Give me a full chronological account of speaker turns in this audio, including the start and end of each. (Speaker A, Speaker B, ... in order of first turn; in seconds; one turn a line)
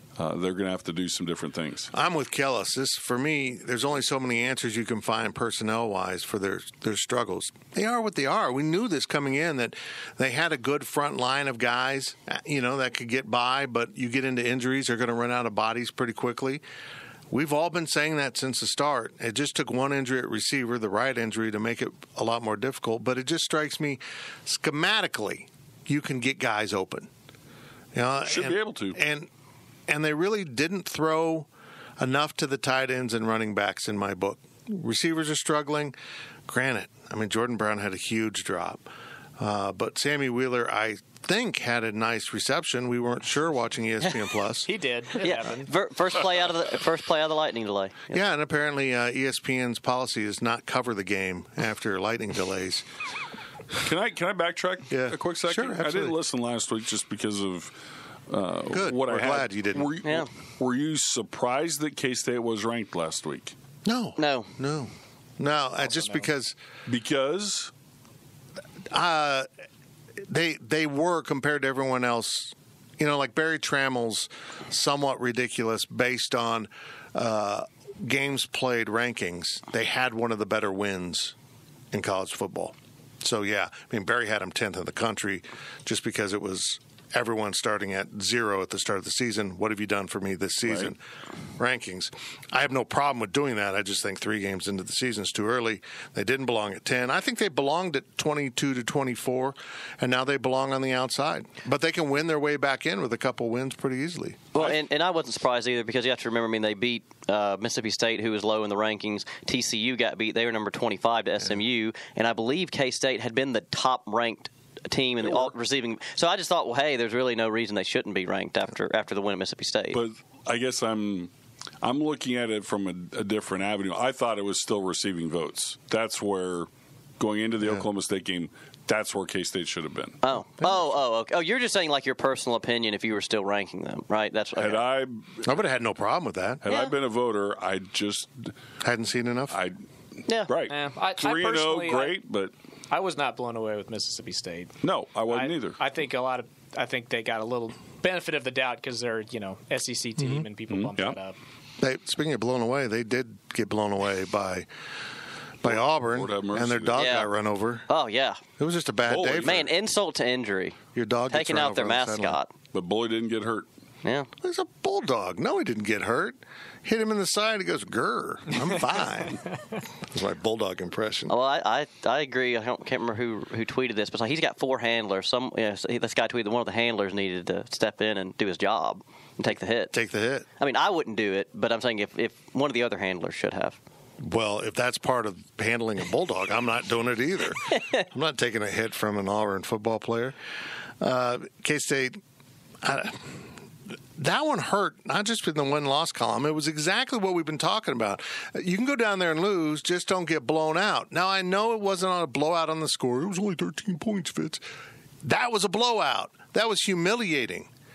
Speaker A: 0.2-1.9
Speaker B: 1.9-16.6
Speaker B: 17.3-27.1
Speaker B: 27.9-29.3
Speaker A: 28.2-29.0
Speaker B: 29.9-36.0
Speaker B: 36.5-44.7
Speaker C: 44.6-45.7
Speaker D: 45.2-48.2
Speaker B: 48.1-52.9
Speaker A: 53.8-57.8
Speaker B: 54.9-56.1
Speaker A: 58.3-63.5
Speaker B: 58.7-59.9
Speaker D: 60.0-60.3
Speaker B: 63.8-66.6
Speaker D: 64.2-64.5
Speaker C: 65.8-66.3
Speaker A: 66.8-67.7
Speaker B: 68.9-69.5
Speaker B: 70.2-81.3
Speaker B: 81.9-91.0
Speaker B: 91.6-104.7
Speaker D: 104.5-120.0
Speaker A: 115.2-115.5
Speaker A: 119.9-121.3
Speaker A: 121.8-126.7
Speaker A: 127.2-130.2
Speaker B: 127.6-127.8
Speaker D: 130.2-134.8
Speaker B: 130.6-130.9
Speaker A: 134.6-135.6
Speaker B: 135.4-136.6
Speaker A: 136.6-138.5
Speaker D: 136.7-136.9
Speaker B: 138.8-139.6
Speaker A: 139.5-139.8
Speaker A: 140.4-142.5
Speaker C: 140.7-142.2
Speaker C: 142.9-144.7
Speaker A: 144.8-145.8
Speaker C: 145.3-151.4
Speaker B: 150.2-150.4
Speaker A: 150.7-151.2
Speaker B: 151.8-154.7
Speaker B: 155.6-157.9
Speaker A: 155.6-157.0
Speaker D: 156.9-157.3
Speaker D: 157.9-158.4
Speaker B: 158.6-159.7
Speaker A: 159.1-159.7
Speaker D: 159.4-162.5
Speaker B: 160.9-162.4
Speaker A: 162.7-163.7
Speaker D: 164.0-164.3
Speaker B: 164.4-169.4
Speaker B: 170.0-171.3
Speaker D: 171.3-179.9
Speaker B: 179.9-180.5
Speaker D: 180.6-183.8
Speaker B: 184.2-190.4
Speaker D: 187.7-188.0
Speaker B: 191.0-192.2
Speaker B: 192.8-204.6
Speaker B: 205.2-207.7